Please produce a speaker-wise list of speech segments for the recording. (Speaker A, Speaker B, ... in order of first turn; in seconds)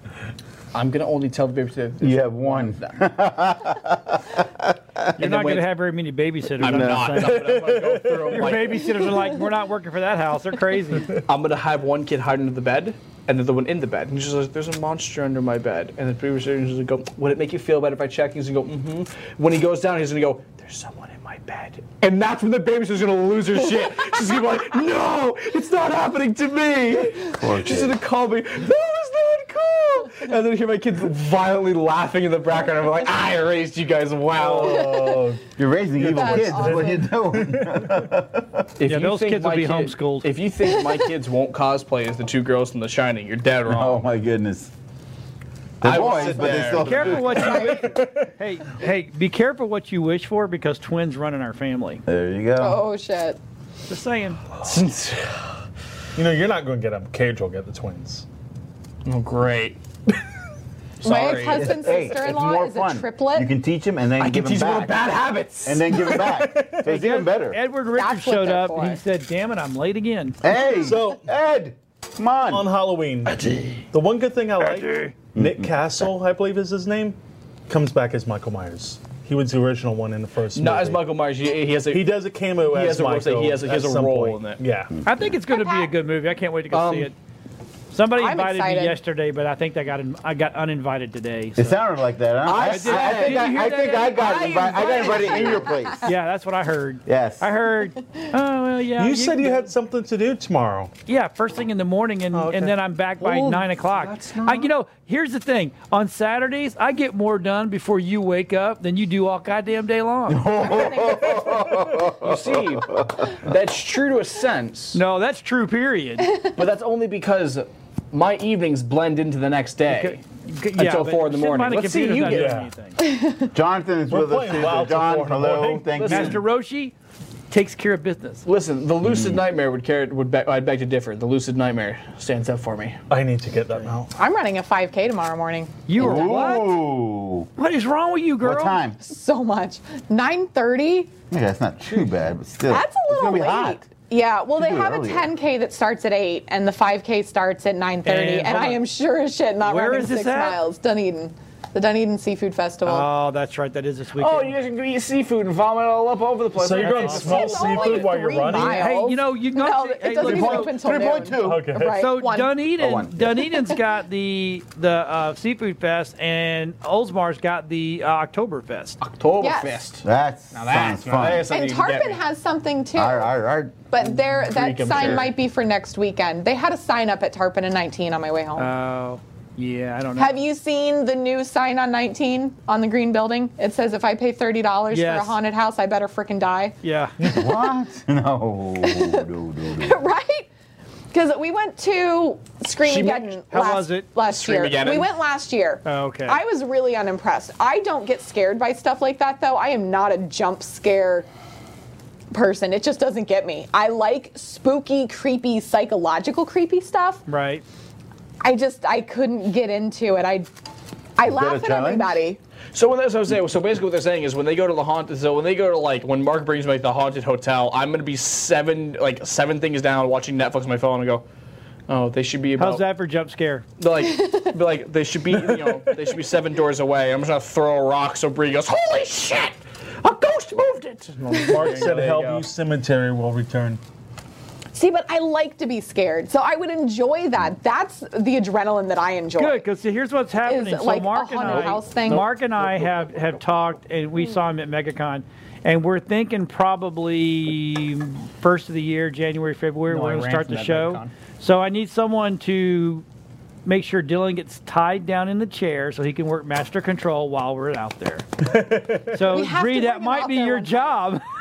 Speaker A: 0.7-3.0, 5.2-5.8, 6.6-9.3, 11.2-35.1, 38.8-44.0, 45.8-47.2, 54.6-55.4, 59.1-59.8, 61.0-62.0, 64.2-65.9, 80.5-84.6, 86.7-87.1, 92.5-95.5, 103.2-104.7, 112.2-115.0, 116.6-120.2, 120.7-122.6, 128.5-133.0, 154.2-158.1, 169.0-172.2, 174.4-175.3, 192.8-193.3, 194.2-195.1, 212.7-221.2, 221.9-222.9, 223.8-232.5, 249.9-251.1
Speaker B: 2.0-5.1, 6.6-7.2, 27.3-28.0, 35.6-38.6, 43.7-44.7, 45.8-47.8, 52.1-52.9, 61.5-65.1, 65.6-67.6, 70.4-72.7, 75.3-75.7, 91.6-96.1, 97.1-97.5, 110.3-113.0, 123.5-126.5, 129.0-129.4, 135.9-137.5, 138.4-139.0, 141.3-143.9, 144.6-145.3, 160.2-161.8, 162.8-163.5, 170.0-171.5, 173.0-173.8, 187.2-190.0, 211.2-212.1
Speaker C: 5.2-7.5, 8.3-11.2, 38.8-40.3, 46.8-52.0, 53.9-54.4, 66.9-70.4, 85.0-87.2, 87.9-91.8, 92.5-94.3, 96.0-99.7, 101.1-110.6, 114.9-116.5, 119.8-123.0, 126.0-126.9, 127.5-128.4, 135.9-136.8, 137.6-138.8, 148.1-148.9, 149.6-150.6, 152.8-154.6, 156.8-157.9, 158.5-160.7, 161.9-169.0, 178.6-180.4, 184.9-185.4, 186.8-187.2, 193.4-194.1, 195.8-196.4, 207.3-207.6, 222.6-223.7, 239.3-253.1, 253.7-258.3, 259.1-261.2
Speaker D: 7.2-8.7, 34.3-38.1, 47.5-48.3, 56.2-58.3, 65.9-67.0, 70.7-71.3, 72.5-73.4, 73.9-81.2, 81.9-85.0, 99.0-100.9, 102.3-102.8, 122.2-122.7, 124.1-126.4, 133.1-134.1, 156.6-158.9, 161.4-162.0, 225.3-225.9, 231.3-233.8, 241.5-242.8, 258.4-259.3
Speaker E: 34.7-35.2, 36.1-37.1, 46.4-48.0, 52.6-53.4, 61.0-63.5, 67.9-69.0, 85.5-85.9, 88.2-89.0, 94.8-96.0, 110.6-111.8, 123.0-123.4, 134.2-135.8, 139.0-141.1, 142.7-153.1, 157.1-162.6, 169.4-169.8, 171.5-173.3, 173.9-178.7, 180.2-186.8, 188.8-189.3, 189.8-190.5, 191.1-201.3, 202.3-207.2, 208.4-210.5, 211.2-212.4, 234.8-239.7, 240.4-242.3, 259.3-260.9